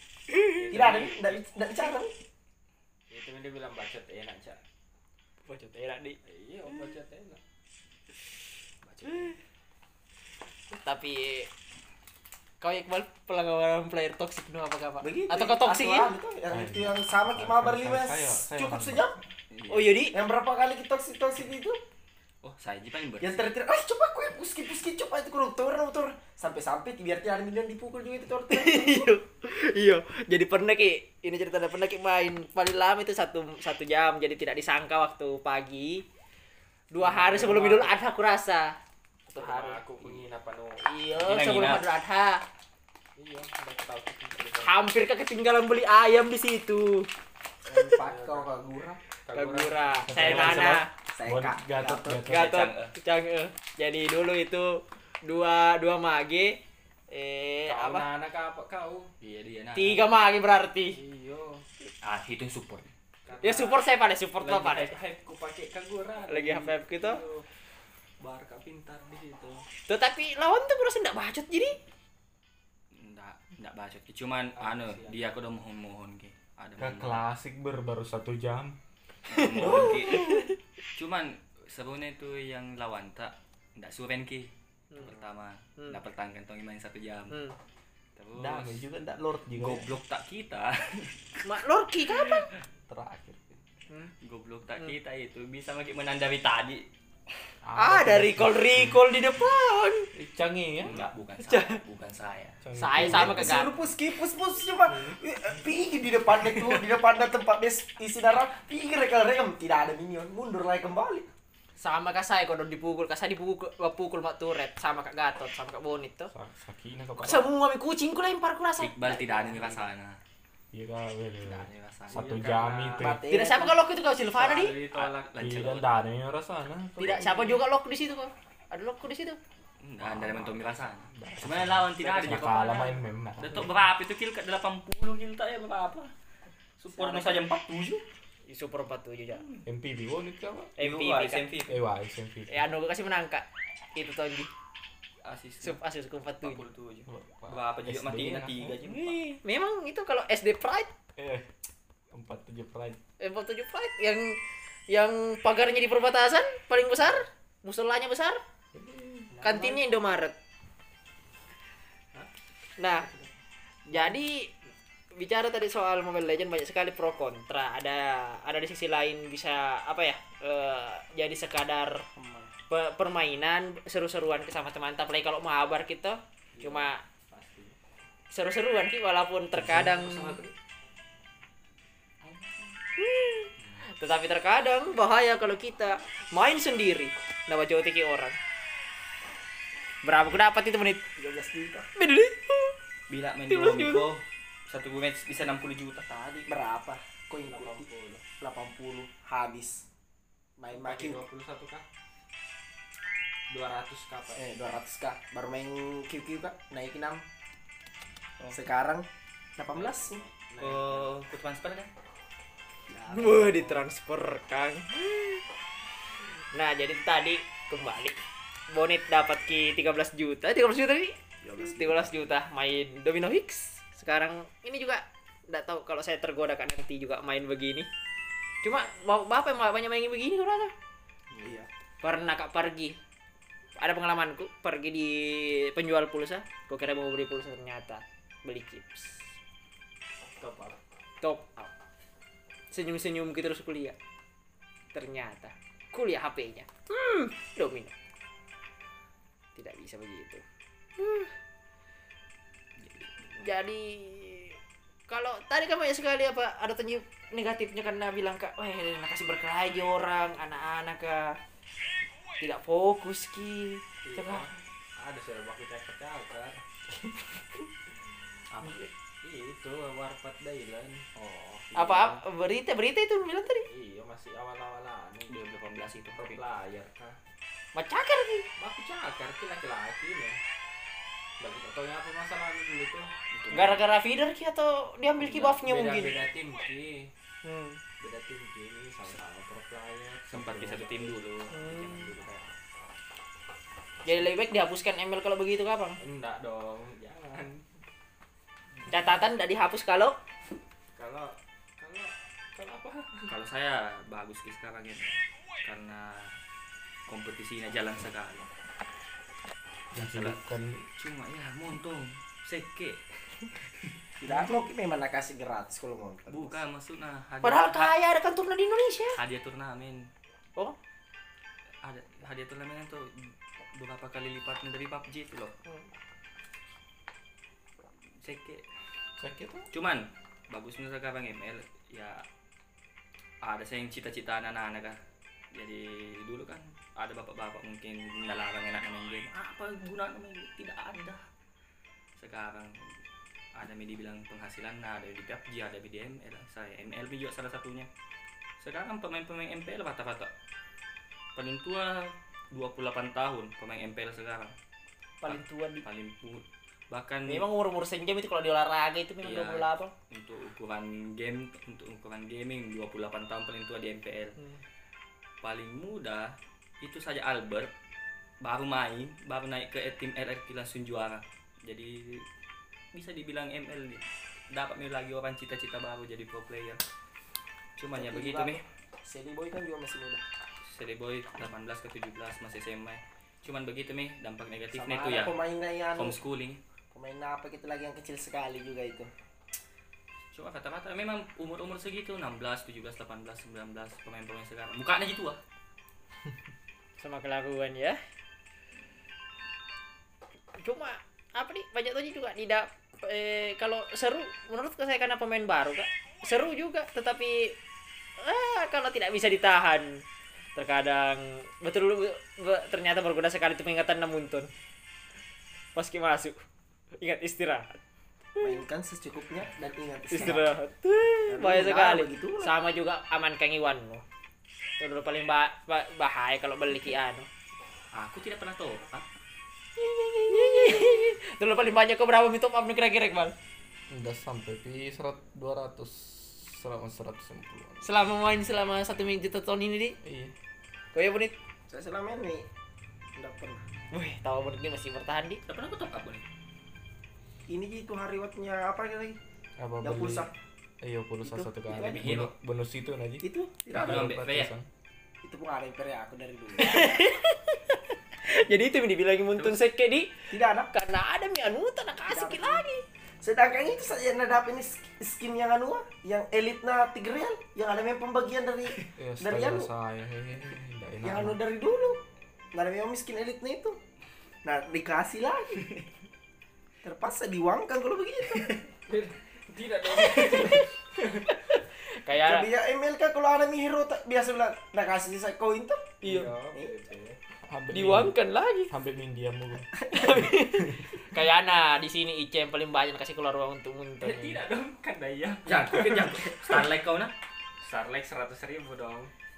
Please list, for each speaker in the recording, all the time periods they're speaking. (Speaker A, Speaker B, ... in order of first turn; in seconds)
Speaker A: 0.5-1.4, 3.1-4.6, 6.2-7.4, 8.9-9.3, 37.0-38.0, 39.3-40.8, 43.2-44.7, 47.9-50.7, 57.6-59.1, 60.9-61.6, 63.2-63.9, 64.4-67.5, 68.2-69.6, 74.5-75.3, 122.1-123.1, 124.3-125.3, 163.0-163.3, 176.6-177.8, 197.4-198.2, 200.7-201.8, 203.5-204.8, 209.7-211.1, 240.4-240.8, 264.0-266.6, 269.2-272.2, 273.7-275.4, 276.1-277.2, 278.6-280.4, 281.4-283.1, 285.2-287.1, 288.0-292.5, 296.0-297.6, 300.9-303.3, 478.8-481.3, 486.0-487.2, 494.0-496.7, 497.6-499.1
Speaker B: 0.7-2.1, 15.0-19.2, 20.1-21.8, 23.2-29.1, 47.6-49.0, 50.3-50.6, 51.1-52.2, 103.0-111.3, 123.0-123.8, 159.3-159.8, 172.1-172.5, 191.2-191.9, 196.1-197.9, 198.4-199.9, 200.6-201.2, 204.3-207.2, 208.5-210.2, 221.4-222.1, 231.4-231.7, 314.2-316.6, 377.9-380.2, 384.7-386.2, 386.9-389.1, 418.4-420.5, 421.3-422.5, 441.7-442.4, 443.1-443.6, 447.5-449.2, 449.8-450.3, 451.2-452.2, 453.2-454.2, 455.2-457.1, 460.3-460.7, 462.1-462.6, 463.2-469.7, 471.0-472.0, 472.5-473.8, 474.4-475.7, 476.8-478.6, 482.1-486.7
Speaker C: 5.5-6.2, 10.7-11.5, 12.6-16.1, 19.7-20.2, 28.5-36.0, 36.9-38.8, 39.3-39.8, 40.8-42.4, 44.6-47.1, 49.3-50.9, 52.3-58.1, 59.7-61.0, 63.4-65.0, 66.3-67.2, 69.9-71.8, 79.3-80.5, 87.3-87.5, 91.4-92.5, 97.8-100.1, 101.5-101.8, 102.8-103.7, 111.8-116.3, 117.2-119.8, 123.3-124.8, 127.0-129.4, 138.4-139.4, 140.8-141.5, 142.5-144.5, 145.6-146.7, 149.0-150.9, 153.2-158.4, 159.4-160.3, 162.8-163.1, 163.9-164.5, 165.1-172.1, 172.7-177.0, 178.3-180.4, 183.0-188.4, 190.0-191.1, 191.9-192.7, 193.5-194.1, 213.1-215.4, 216.5-227.9, 228.6-230.7, 232.0-233.0, 233.8-239.3, 241.2-241.7, 242.7-243.9, 244.9-247.9, 249.6-250.4, 251.0-251.3, 253.4-261.4, 262.4-264.5, 271.7-273.7, 277.7-278.5, 283.5-286.2, 287.4-287.8, 291.5-292.1, 294.0-296.0, 298.9-300.2, 317.4-319.2, 355.2-355.9, 357.3-359.9, 397.0-398.0, 400.6-407.6, 408.2-410.0, 410.5-414.5, 415.7-416.4, 417.0-417.8, 418.3-418.6, 420.1-424.0, 424.8-427.3, 429.8-433.3, 437.8-440.0, 440.9-441.3, 443.9-445.4, 456.6-462.8, 479.9-480.7, 481.4-482.5, 486.0-486.3, 487.7-488.7, 489.9-494.4
Speaker D: 16.5-19.1, 50.0-52.6, 76.8-78.8, 88.3-89.9, 92.9-93.5, 97.6-99.0, 100.1-101.0, 102.6-103.7, 116.3-117.5, 120.7-123.2, 125.4-127.6, 130.0-133.7, 139.7-140.7, 141.7-142.7, 147.1-148.8, 151.2-151.5, 152.1-153.0, 158.8-159.1, 309.9-310.9, 329.2-329.7, 433.9-437.9, 440.0-440.3, 449.6-450.3, 450.8-454.7, 468.9-471.4, 487.4-488.2, 488.7-490.9
Speaker E: 19.5-20.0, 22.4-23.5, 41.2-41.8, 52.3-52.9, 59.2-60.0, 62.0-62.9, 72.9-77.2, 79.3-80.4, 81.0-87.4, 88.2-88.8, 89.6-91.5, 92.1-92.5, 94.2-96.8, 100.8-102.6, 118.8-120.2, 121.4-122.5, 124.9-125.9, 129.8-136.1, 136.8-138.0, 139.3-139.6, 140.8-141.8, 145.2-145.8, 146.4-149.4, 182.2-182.8, 193.1-196.1, 210.6-211.9, 212.9-213.8, 252.8-253.4, 268.5-268.9, 275.3-276.4, 283.3-283.8, 290.3-292.2, 303.3-306.4, 307.1-308.5, 309.9-310.4, 311.0-313.6, 316.3-317.9, 319.1-320.1, 321.8-325.5, 328.2-328.6, 329.7-332.2, 333.4-335.0, 335.5-341.3, 342.2-343.0, 343.5-347.9, 348.6-350.3, 351.4-354.5, 355.2-357.4, 359.2-364.4, 365.4-367.7, 368.4-372.2, 372.9-376.8, 377.8-378.6, 380.6-385.4, 385.9-386.6, 390.3-395.4, 427.9-429.1, 445.5-446.2, 451.7-452.3, 453.7-454.5, 495.4-497.1